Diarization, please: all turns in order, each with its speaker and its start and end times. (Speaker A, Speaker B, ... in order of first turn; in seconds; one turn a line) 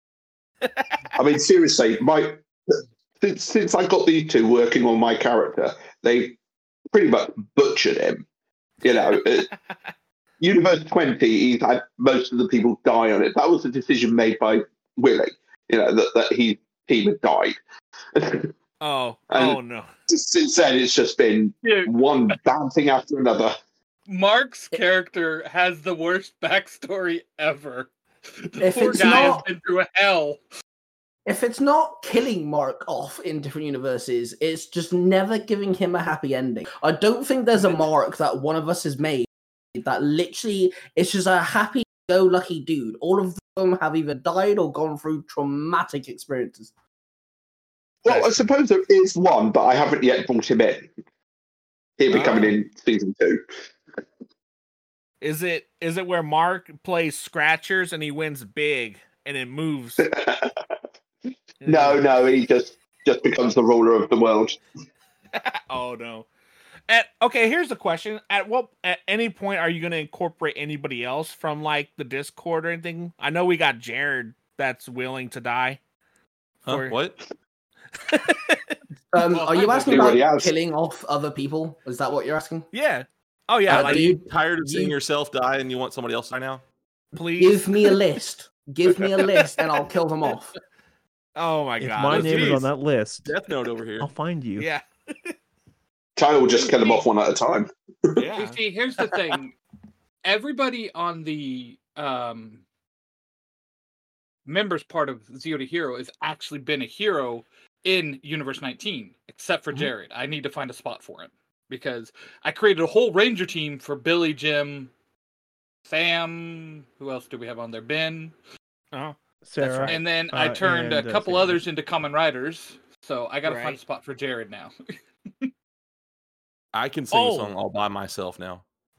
Speaker A: 0.6-1.0
Speaker B: 1.2-2.4
Speaker B: 3.2-6.4
Speaker B: 6.9-8.2
Speaker B: 8.8-9.5
Speaker B: 10.4-17.6
Speaker B: 18.1-18.5
Speaker A: 18.8-19.9
Speaker B: 19.3-19.6
Speaker B: 20.1-23.6
Speaker C: 21.6-21.9
Speaker C: 24.1-27.9
Speaker C: 28.4-30.4
Speaker D: 28.6-29.5
Speaker D: 31.2-46.7
Speaker B: 48.0-50.9
Speaker A: 48.1-48.4
Speaker B: 52.0-53.4
Speaker A: 52.1-52.6
Speaker A: 55.2-60.1
Speaker B: 60.0-60.5
Speaker A: 61.6-62.0
Speaker B: 61.6-64.6
Speaker A: 65.3-66.3
Speaker A: 66.9-75.8
Speaker A: 76.7-77.0
Speaker E: 76.7-77.2
Speaker A: 78.0-78.8
Speaker D: 79.1-82.7
Speaker C: 79.3-80.2
Speaker B: 79.8-80.5
Speaker A: 82.7-84.1
Speaker D: 83.7-85.0
Speaker E: 83.7-86.6
Speaker A: 87.2-88.0
Speaker D: 87.4-90.5
Speaker A: 89.0-89.6
Speaker A: 91.4-92.7
Speaker F: 91.8-93.3
Speaker E: 92.1-92.6
Speaker E: 93.2-94.1
Speaker F: 94.0-94.7
Speaker A: 94.6-95.3
Speaker B: 96.2-98.2
Speaker A: 96.6-97.0
Speaker A: 98.2-99.2
Speaker C: 98.3-99.5
Speaker C: 100.2-102.6
Speaker C: 104.5-114.9
Speaker C: 115.9-118.3
Speaker A: 118.9-120.0
Speaker F: 119.4-121.6
Speaker C: 119.8-124.8
Speaker A: 123.4-123.8
Speaker E: 126.7-128.6
Speaker A: 127.1-127.6